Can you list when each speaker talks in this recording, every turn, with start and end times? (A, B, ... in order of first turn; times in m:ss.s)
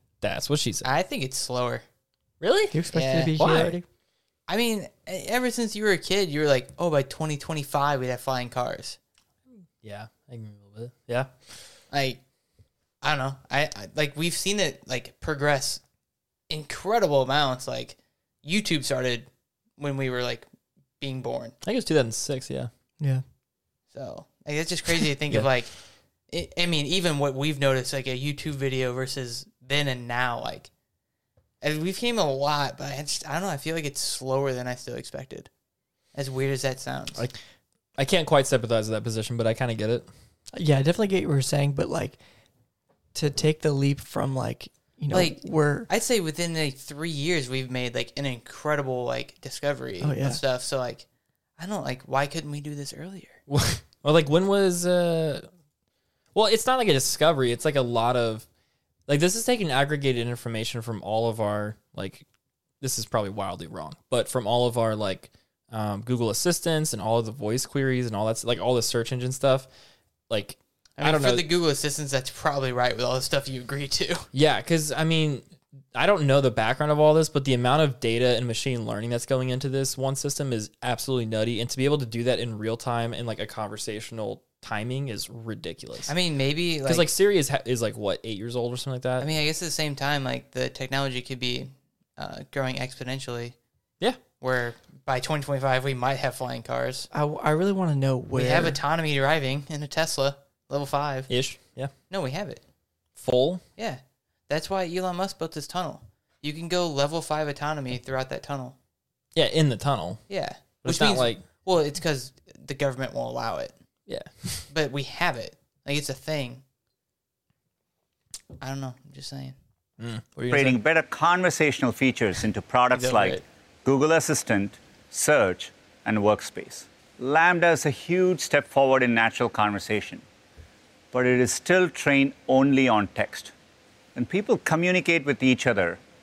0:00.2-0:00.9 A
0:00.8-0:01.8 B
0:02.4-0:02.8 A
0:02.7-0:03.8 C
0:02.9-0:03.4 B
0:03.4-0:03.8 A
0:04.5-0:09.0 B
0:09.8-0:11.6 A
0:11.9-0:12.2 B
0:13.0-0:15.8 B
0:16.5-0:19.3 B
0:19.8-0:20.5 B
0:21.0-0:21.6 B
0:21.6-0:22.7 A
0:23.9-0:25.7 B
0:26.3-0:30.7 B
0:31.6-0:35.5 B
0:36.2-0:37.2 B
0:38.0-0:40.1 A
0:40.5-0:42.2 C
0:43.1-0:45.9 C
0:45.1-0:51.0 B
0:50.0-0:50.4 C
0:51.6-0:53.4 B
0:53.5-0:55.5 A
0:56.4-0:58.4 A
0:59.1-1:02.2 A
1:02.8-1:09.7 A
1:10.3-1:11.5 A
1:11.0-1:14.3 B
1:14.3-1:26.1 A
1:26.1-1:27.1 B
1:26.8-1:29.3 A
1:29.2-1:33.6 B
1:34.4-1:37.1 B
1:37.1-1:38.8 C
1:38.3-1:41.3 B
1:41.3-1:41.9 A
1:42.1-1:42.6 B
1:43.2-1:43.6 A
1:43.8-1:48.8 B
1:49.4-1:50.2 A
1:50.3-1:53.8 B
1:50.8-1:51.4 A
1:54.1-1:54.7 A
1:54.7-1:56.6 B
1:58.6-1:59.6 B
2:00.0-2:00.8 A
2:00.5-2:10.2 D
2:02.9-2:03.4 A
2:11.1-2:13.5 D
2:14.2-2:16.0 D